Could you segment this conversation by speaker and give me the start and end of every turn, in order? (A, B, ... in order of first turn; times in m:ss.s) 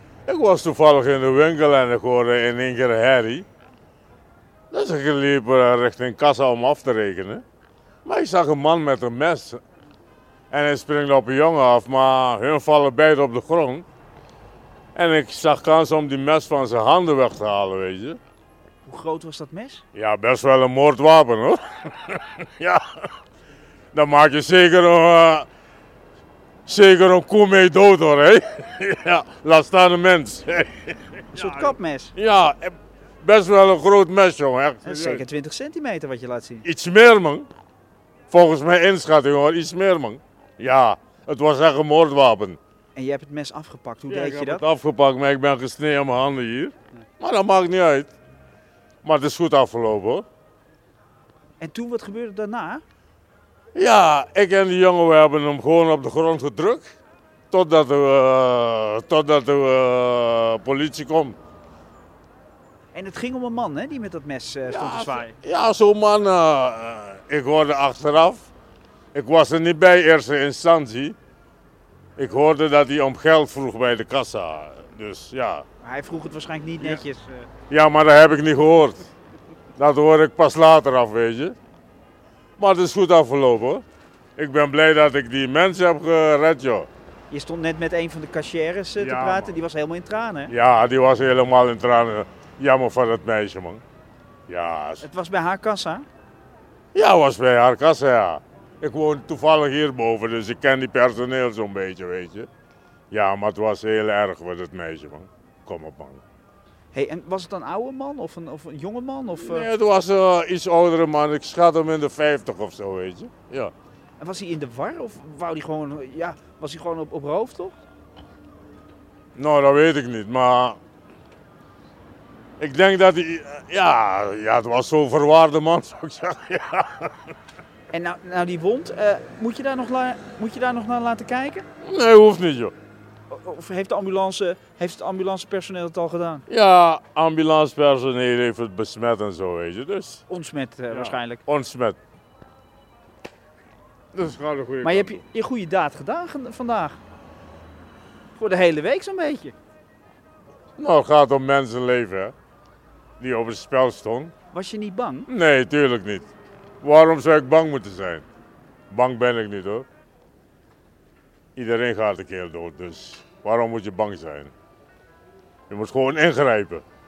0:00.3-0:03.4 A
0:04.7-0:07.4 A
0:08.0-0:09.6 A
0:10.5-0:13.8 A
0:14.9-0:18.2 A
0:18.8-0:19.8 B
0:19.9-0:23.1 A
0:23.9-0:25.5 A
0:26.6-0:35.2 A
0:31.3-0:32.1 B
0:34.8-0:36.6 B
0:36.6-0:37.5 A
0:38.3-0:42.6 A
0:42.9-0:44.6 B
0:44.1-0:48.1 A
0:49.0-0:50.2 A
0:51.6-0:52.8 B
0:53.7-0:56.9 A
0:57.5-1:01.4 A
1:02.9-1:05.3 B
1:04.6-1:08.5 A
1:09.1-1:11.1 A
1:12.2-1:15.6 A
1:15.8-1:17.5 B
1:17.7-1:19.1 A
1:19.8-1:21.6 A
1:22.6-1:23.8 A
1:24.4-1:26.9 A
1:27.3-1:30.5 B
1:29.0-1:29.6 A
1:30.5-1:33.8 A
1:34.5-1:35.0 A
1:35.0-1:36.1 B
1:36.9-1:42.5 A
1:43.1-1:46.2 A
1:46.9-1:49.7 B
1:49.4-1:53.7 A
1:54.2-1:57.8 B
1:59.4-2:00.8 A
2:02.6-2:07.2 A
2:07.9-2:11.6 B
2:11.8-2:12.7 A
2:13.3-2:16.4 B
2:16.5-2:20.2 A
2:20.3-2:21.4 B
2:20.9-2:22.0 A
2:24.1-2:25.2 A
2:24.8-2:27.0 B
2:28.3-2:29.5 B
2:30.8-2:32.3 A
2:33.2-2:34.3 A
2:34.5-2:35.3 B
2:35.3-2:36.3 A
2:36.8-2:38.2 A
2:38.9-2:39.8 A
2:41.6-2:44.5 A
2:45.7-2:46.8 A